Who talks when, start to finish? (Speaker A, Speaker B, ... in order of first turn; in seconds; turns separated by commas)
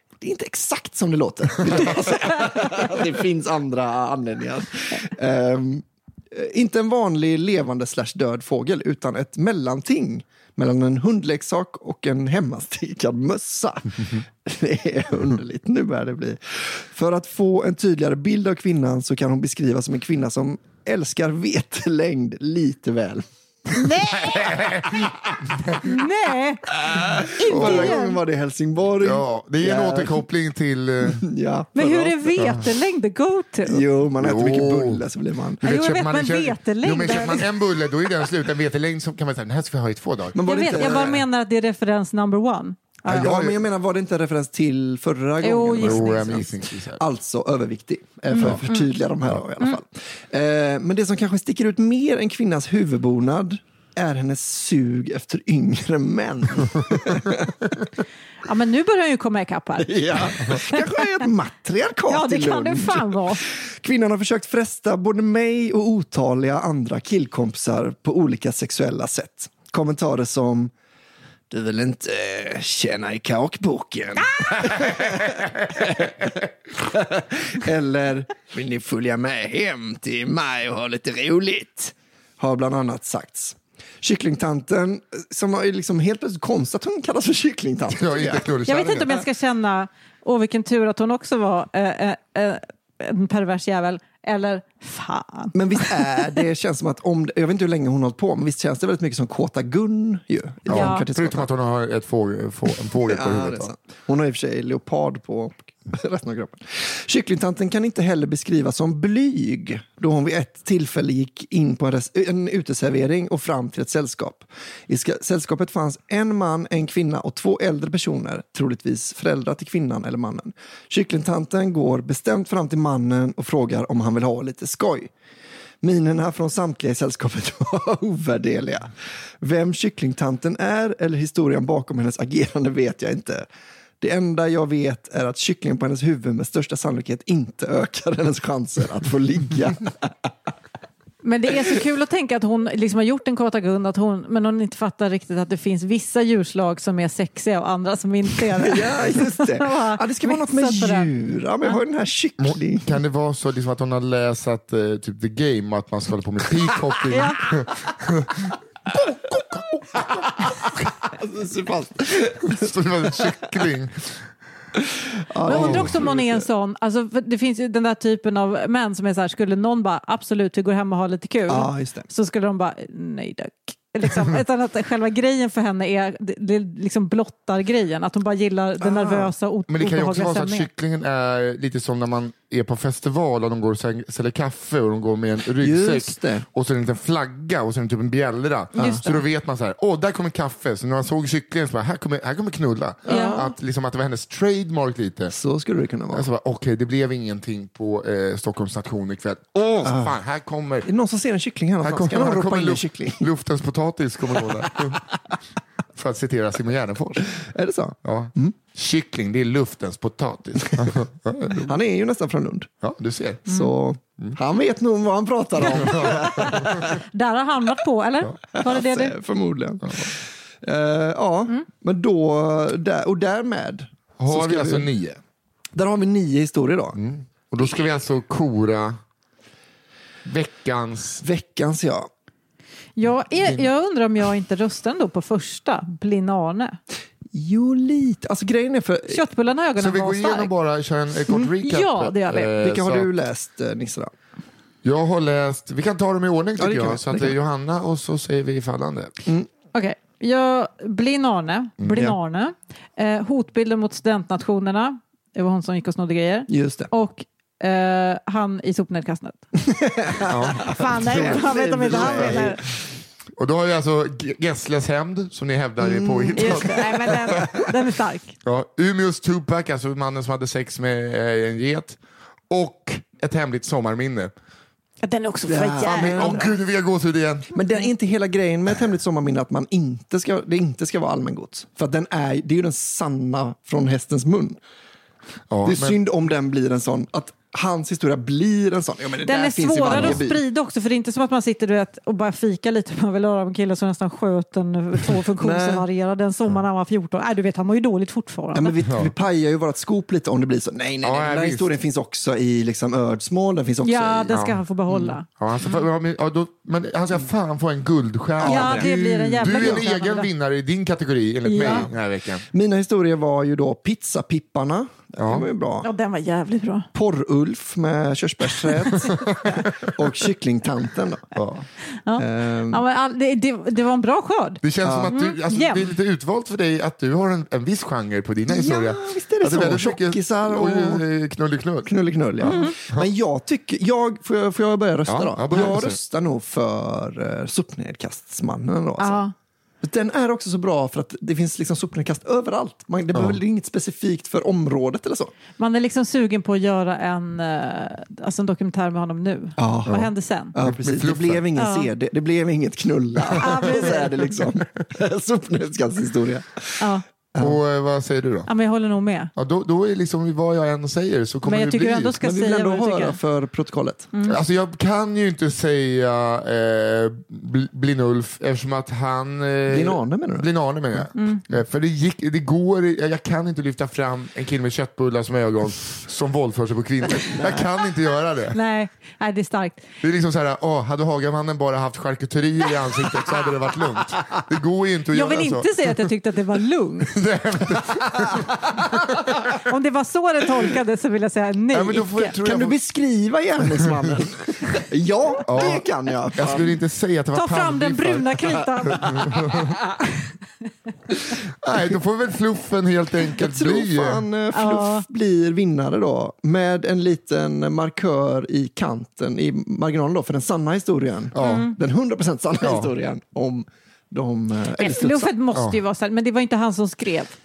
Speaker A: 0.2-25.1, Speaker B: 23.7-24.7, Speaker C: 24.1-25.8, Speaker B: 25.8-26.7, Speaker A: 26.9-30.2, Speaker B: 27.4-28.2, Speaker C: 27.5-28.0, Speaker C: 29.0-31.2, Speaker A: 31.0-32.3, Speaker B: 31.7-33.9, Speaker C: 32.4-32.7, Speaker A: 33.6-35.6, Speaker C: 34.2-35.0, Speaker C: 35.6-41.1, Speaker B: 35.6-37.5, Speaker A: 40.3-41.2, Speaker B: 40.4-43.3, Speaker C: 43.1-43.6, Speaker A: 43.1-57.7, Speaker B: 45.4-46.5, Speaker C: 45.8-47.0, Speaker C: 48.4-48.6, Speaker B: 48.4-48.9, Speaker B: 58.5-61.0, Speaker A: 59.8-70.7, Speaker B: 62.1-63.4, Speaker A: 71.5-88.5, Speaker C: 87.9-89.2, Speaker B: 88.7-96.3, Speaker A: 95.5-101.5, Speaker B: 100.7-101.1, Speaker C: 100.7-103.7, Speaker A: 103.1-125.1, Speaker A: 125.8-133.4, Speaker A: 134.0-140.3, Speaker B: 141.2-151.1, Speaker A: 148.6-153.0, Speaker C: 152.4-160.9, Speaker A: 156.7-157.2, Speaker B: 157.1-157.4, Speaker A: 159.9-162.6, Speaker C: 162.4-164.2, Speaker A: 164.9-166.5, Speaker B: 165.4-180.7, Speaker C: 165.5-166.0, Speaker A: 171.5-172.1, Speaker A: 178.8-179.3, Speaker C: 179.7-195.3, Speaker A: 185.6-186.4, Speaker B: 188.7-189.2, Speaker A: 188.8-189.1, Speaker A: 193.1-193.6, Speaker B: 193.1-193.4, Speaker A: 195.3-196.3, Speaker C: 196.1-200.9, Speaker A: 199.8-200.2, Speaker A: 200.8-203.3, Speaker C: 201.8-205.1, Speaker A: 204.4-205.0, Speaker C: 205.9-207.4, Speaker A: 207.3-208.6, Speaker C: 208.0-211.8, Speaker A: 211.6-212.7, Speaker C: 212.8-213.5, Speaker A: 213.4-217.0, Speaker C: 215.7-216.9, Speaker B: 215.8-219.2, Speaker A: 218.6-224.9, Speaker C: 224.2-225.2, Speaker A: 225.7-227.0, Speaker C: 226.9-229.0, Speaker C: 230.2-231.2, Speaker A: 231.2-232.1, Speaker B: 233.0-236.8, Speaker C: 233.4-233.7, Speaker A: 237.3-239.2, Speaker B: 239.1-240.5, Speaker C: 239.8-243.1, Speaker B: 241.3-242.6, Speaker A: 242.6-244.1, Speaker C: 244.8-249.1, Speaker A: 246.6-247.4, Speaker B: 249.7-259.5, Speaker A: 256.5-256.9, Speaker A: 259.6-262.6, Speaker B: 260.2-262.6, Speaker C: 260.3-262.6, Speaker C: 263.4-267.6, Speaker A: 265.8-267.7, Speaker B: 266.4-268.4, Speaker C: 268.4-274.3, Speaker B: 275.0-276.5, Speaker A: 275.4-276.5, Speaker C: 275.9-277.5, Speaker A: 277.5-284.6, Speaker C: 285.5-286.0, Speaker A: 285.6-290.4, Speaker B: 289.2-298.8, Speaker C: 289.9-290.2, Speaker A: 295.4-295.9, Speaker A: 298.5-304.4, Speaker C: 298.8-299.1, Speaker C: 301.0-301.7, Speaker B: 303.8-305.8, Speaker C: 304.3-304.6, Speaker C: 305.3-312.4, Speaker A: 308.4-308.9, Speaker B: 308.4-310.3, Speaker A: 309.4-309.9, Speaker B: 311.4-311.9, Speaker A: 311.6-311.9, Speaker A: 312.5-315.9, Speaker C: 315.2-315.5, Speaker B: 315.8-316.9, Speaker A: 316.9-321.4, Speaker B: 318.7-319.7, Speaker C: 319.0-319.5, Speaker C: 321.4-321.6, Speaker B: 321.9-325.9, Speaker A: 322.2-322.8, Speaker C: 324.6-331.9, Speaker A: 324.8-325.2, Speaker A: 328.5-331.0, Speaker A: 331.9-339.2, Speaker B: 332.4-332.8, Speaker C: 332.5-333.1, Speaker C: 335.1-336.0, Speaker B: 339.0-339.3, Speaker A: 339.8-345.3, Speaker B: 345.6-350.6, Speaker A: 349.6-357.6, Speaker C: 349.9-351.4, Speaker B: 351.6-351.9, Speaker B: 353.4-354.2, Speaker C: 357.4-358.5, Speaker B: 358.5-359.3, Speaker C: 359.4-362.1, Speaker B: 361.4-363.2, Speaker A: 362.2-364.1, Speaker B: 364.1-364.4, Speaker C: 364.3-378.6, Speaker A: 369.7-370.5, Speaker B: 371.2-371.4, Speaker A: 377.4-377.6, Speaker B: 378.5-379.9, Speaker C: 380.0-386.1, Speaker B: 385.1-387.1, Speaker C: 387.1-389.6, Speaker B: 389.6-392.4, Speaker C: 391.7-392.8, Speaker A: 392.4-396.8, Speaker C: 395.5-395.8, Speaker C: 396.4-399.8, Speaker B: 397.3-399.2, Speaker C: 401.6-404.2, Speaker A: 403.3-415.4, Speaker B: 404.5-405.1, Speaker C: 411.4-411.7, Speaker B: 411.4-411.8, Speaker C: 412.6-412.9, Speaker B: 414.8-417.3